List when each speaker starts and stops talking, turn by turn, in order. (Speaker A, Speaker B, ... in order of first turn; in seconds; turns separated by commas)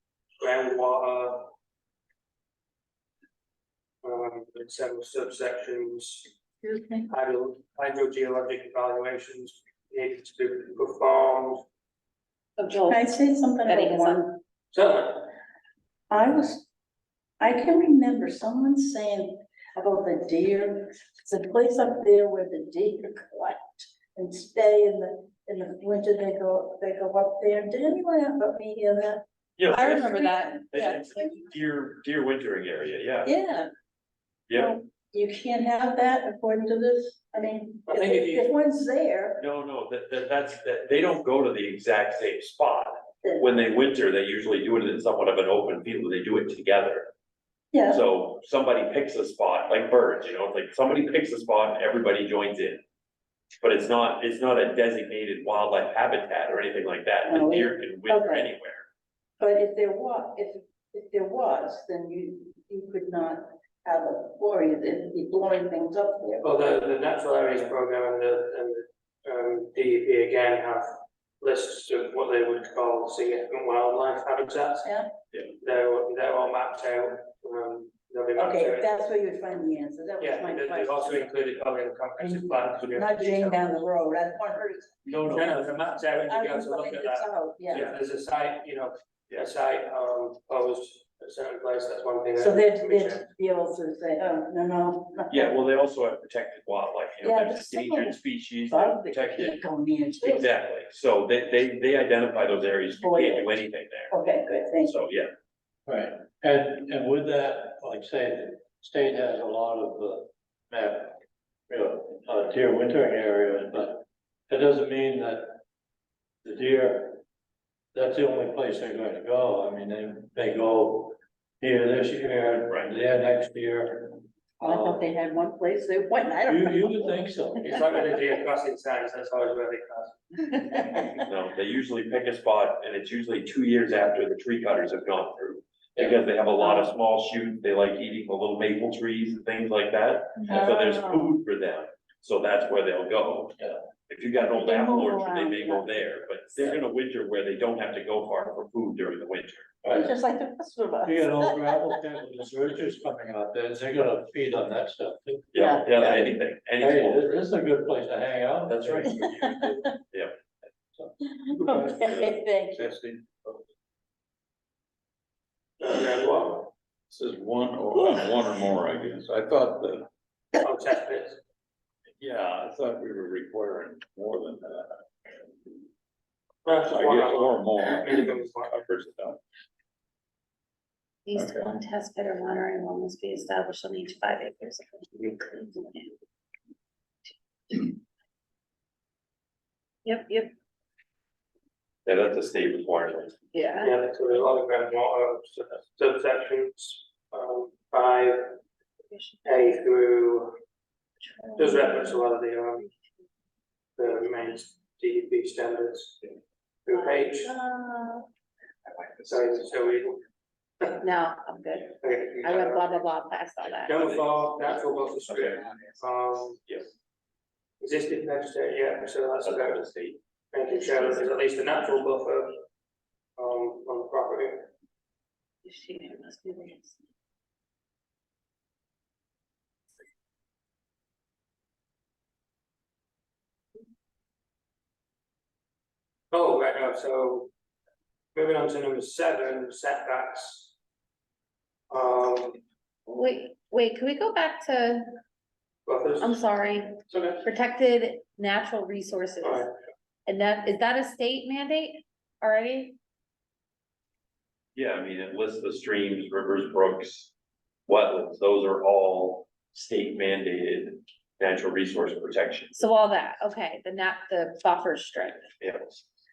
Speaker A: 0.4-1.5, Speaker A: 4.0-6.3, Speaker B: 6.6-7.1, Speaker A: 7.1-11.7, Speaker C: 12.6-13.0, Speaker D: 12.8-13.2, Speaker B: 12.9-14.4, Speaker C: 13.7-14.1, Speaker D: 13.8-14.2, Speaker A: 14.7-15.3, Speaker B: 16.1-16.7, Speaker B: 17.4-29.2, Speaker E: 29.6-33.3, Speaker D: 29.7-30.8, Speaker C: 29.7-30.4, Speaker B: 30.0-31.5, Speaker B: 33.2-33.7, Speaker E: 34.5-34.7, Speaker B: 34.5-39.4, Speaker A: 37.9-38.5, Speaker E: 39.4-47.1, Speaker B: 43.2-43.5, Speaker B: 47.7-48.0, Speaker E: 47.9-52.8, Speaker E: 53.6-58.9, Speaker B: 57.2-58.5, Speaker B: 59.4-66.5, Speaker A: 66.4-70.9, Speaker A: 71.4-74.9, Speaker B: 74.8-75.1, Speaker A: 75.6-78.9, Speaker B: 78.4-81.3, Speaker A: 80.2-83.8, Speaker B: 82.2-87.9, Speaker A: 85.3-93.3, Speaker E: 87.7-88.0, Speaker B: 92.4-95.6, Speaker E: 95.3-99.7, Speaker B: 97.2-100.5, Speaker E: 100.2-104.2, Speaker B: 103.0-105.0, Speaker E: 104.8-105.3, Speaker D: 105.9-115.6, Speaker D: 116.4-117.2, Speaker D: 117.9-125.0, Speaker E: 122.7-122.9, Speaker B: 124.6-128.1, Speaker D: 126.5-127.7, Speaker A: 127.6-130.2, Speaker B: 130.5-131.1, Speaker E: 131.2-143.6, Speaker D: 136.0-136.2, Speaker B: 136.6-136.9, Speaker B: 140.4-141.4, Speaker E: 144.1-149.7, Speaker B: 144.4-146.1, Speaker D: 149.8-150.1, Speaker B: 149.9-152.0, Speaker D: 151.1-156.0, Speaker E: 155.5-157.4, Speaker B: 155.5-156.3, Speaker D: 156.8-159.2, Speaker E: 158.7-160.4, Speaker B: 159.1-159.9, Speaker D: 161.0-162.1, Speaker B: 161.2-162.9, Speaker F: 162.1-163.6, Speaker A: 165.8-166.7, Speaker F: 167.1-170.1, Speaker A: 170.6-171.4, Speaker F: 172.2-175.3, Speaker A: 176.7-178.9, Speaker F: 176.9-179.4, Speaker C: 181.3-184.5, Speaker F: 181.3-181.7, Speaker D: 181.4-181.7, Speaker D: 184.1-186.1, Speaker C: 190.1-190.4, Speaker E: 192.1-193.4, Speaker C: 193.6-193.9, Speaker A: 193.8-198.6, Speaker A: 199.4-200.5, Speaker C: 201.3-202.1, Speaker A: 201.6-202.9, Speaker A: 204.0-206.2, Speaker A: 206.9-207.5, Speaker C: 207.4-208.2, Speaker A: 209.2-210.2, Speaker C: 211.0-213.9, Speaker A: 212.0-213.0, Speaker A: 213.8-216.6, Speaker A: 217.8-219.8, Speaker E: 219.4-220.2, Speaker A: 220.5-222.6, Speaker A: 223.4-224.7, Speaker C: 225.7-226.8, Speaker D: 226.6-226.9, Speaker A: 236.3-237.5, Speaker A: 238.3-240.7, Speaker A: 241.9-242.6, Speaker C: 243.1-245.0, Speaker A: 245.9-246.4, Speaker C: 246.2-246.9, Speaker A: 247.1-247.5, Speaker C: 247.4-249.6, Speaker A: 249.4-249.7, Speaker C: 250.3-252.9, Speaker E: 254.8-257.3, Speaker E: 257.9-262.8, Speaker C: 262.8-265.4, Speaker D: 264.9-265.4, Speaker E: 265.6-266.0